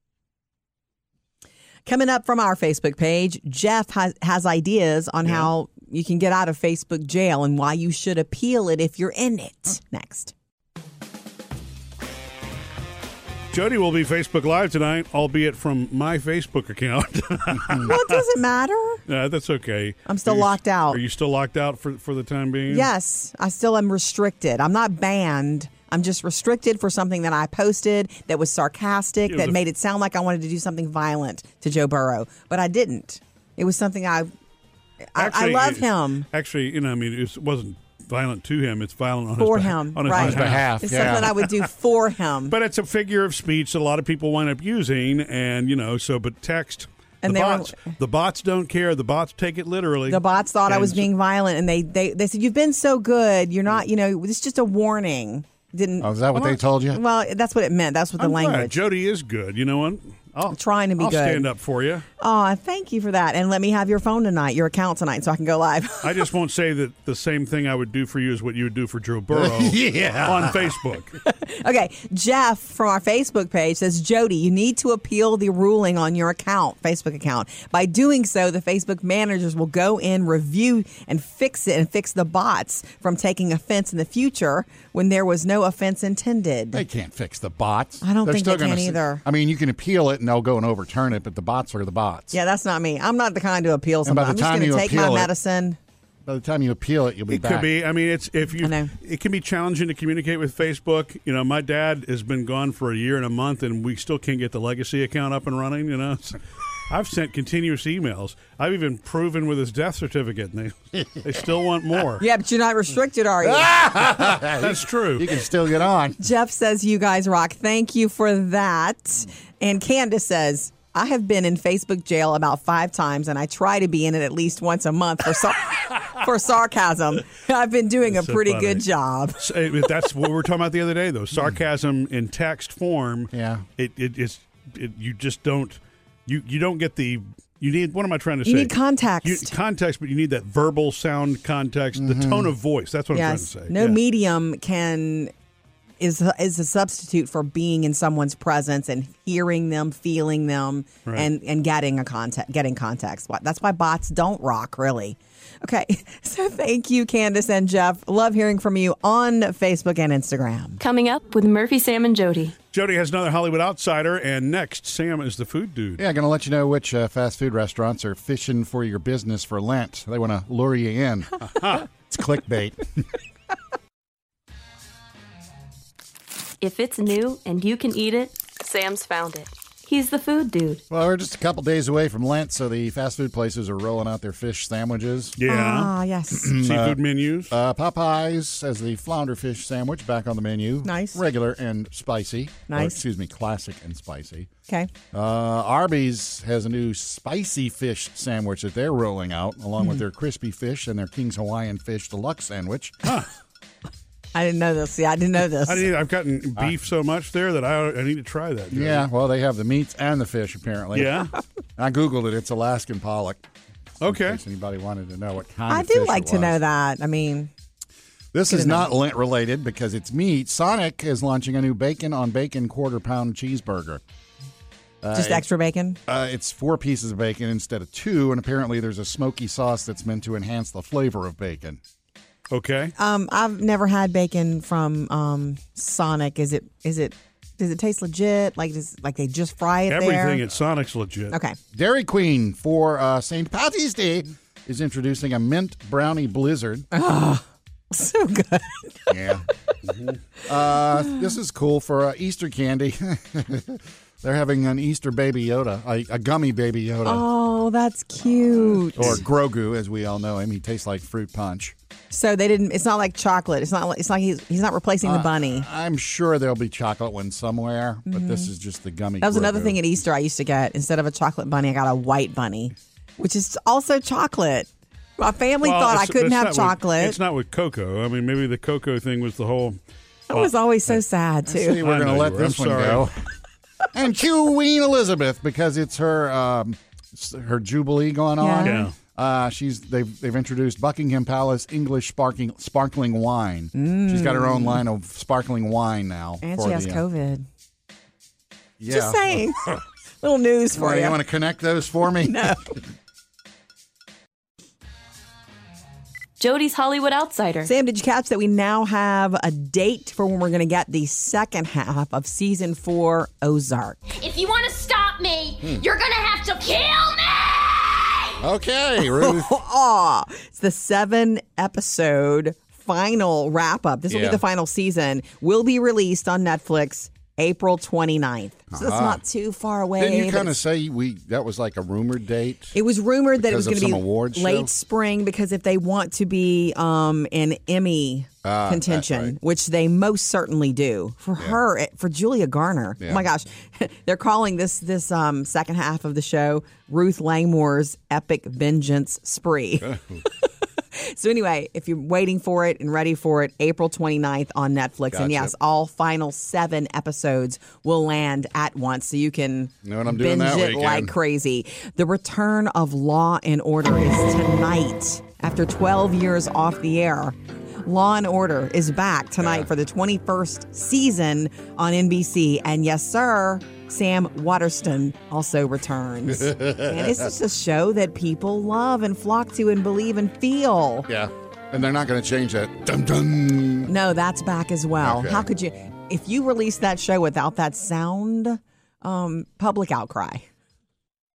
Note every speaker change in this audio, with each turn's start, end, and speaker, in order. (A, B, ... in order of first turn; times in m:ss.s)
0:01.8-0:10.3 A
0:13.5-0:18.2 B
0:17.8-0:19.0 A
0:19.1-0:22.9 B
0:20.0-0:21.0 A
0:22.7-0:34.3 A
0:29.3-0:29.6 B
0:35.1-0:36.3 A
0:35.2-0:41.4 B
0:39.4-0:42.5 A
0:40.1-0:41.3 C
0:42.5-0:51.1 B
0:47.2-0:47.9 A
0:50.1-0:58.8 A
0:56.0-0:57.0 C
0:58.2-1:02.0 B
1:00.5-1:01.5 A
1:02.2-1:06.2 A
1:06.0-1:11.1 B
1:09.3-1:10.8 C
1:11.2-1:26.8 A
1:26.7-1:32.4 C
1:28.0-1:29.2 A
1:32.3-1:35.8 A
1:34.0-1:35.3 C
1:36.2-1:37.7 C
1:37.3-1:52.2 B
1:38.6-1:38.9 A
1:52.2-1:53.7 A
1:53.4-1:56.2 C
1:54.6-1:55.3 B
1:56.2-2:09.5 A
2:08.1-2:08.8 B
2:09.4-2:24.0 B
2:13.3-2:13.6 C
2:18.4-2:19.5 A
2:22.0-2:22.5 C
2:23.1-2:25.3 A
2:26.0-2:40.8 A
2:40.8-2:42.6 D
2:42.7-2:46.0 B
2:46.0-2:51.4 C
2:51.5-2:51.8 B
2:52.0-2:52.9 C
2:56.6-3:00.8 D
3:00.9-3:05.4 C
3:05.4-3:05.9 B
3:05.4-3:06.5 A
3:06.3-3:07.0 C
3:06.5-3:07.5 B
3:07.5-3:14.5 C
3:10.8-3:11.2 A
3:12.7-3:13.0 A
3:15.1-3:23.0 C
3:24.3-3:25.9 A
3:25.6-3:29.0 B
3:28.7-3:33.5 C
3:30.9-3:31.3 B
3:34.0-3:34.4 B
3:34.0-3:36.6 C
3:35.7-3:37.5 A
3:38.3-3:44.0 C
3:38.5-3:38.9 A
3:45.0-3:45.4 C
3:45.1-3:46.0 A
3:46.1-3:51.8 C
3:52.5-3:52.9 B
3:53.0-4:00.4 A
3:59.9-4:01.4 B
4:01.3-4:01.6 A
4:01.7-4:06.9 C
4:06.9-4:09.2 A
4:09.1-4:09.4 C
4:09.9-4:10.2 B
4:10.4-4:17.2 C
4:17.0-4:19.2 A
4:18.9-4:21.7 C
4:22.1-4:25.6 A
4:25.0-4:29.8 C
4:28.1-4:28.5 A
4:29.2-4:37.2 A
4:35.6-4:39.8 B
4:40.3-4:41.8 A
4:41.4-4:43.2 C
4:41.8-4:43.1 B
4:43.9-4:57.0 C
4:48.4-4:48.9 A
4:48.6-4:48.9 B
4:53.7-4:54.8 A
4:56.4-4:57.5 A
4:58.8-4:59.7 C
4:58.9-5:01.2 A
5:00.7-5:02.6 C
5:02.2-5:02.7 A
5:06.4-5:07.7 D
5:07.6-5:14.0 A
5:14.2-5:18.4 E
5:18.4-5:19.5 C
5:19.0-5:30.6 A
5:24.1-5:24.4 C
5:28.7-5:29.2 C
5:30.0-5:32.7 C
5:32.7-6:21.1 A
5:33.4-5:34.7 C
5:38.4-5:39.3 C
5:49.8-5:50.2 C
5:55.1-5:55.5 C
5:59.8-6:01.1 C
6:09.4-6:09.7 C
6:16.3-6:17.3 C
6:21.1-6:23.9 C
6:23.9-6:30.4 A
6:25.0-6:25.5 C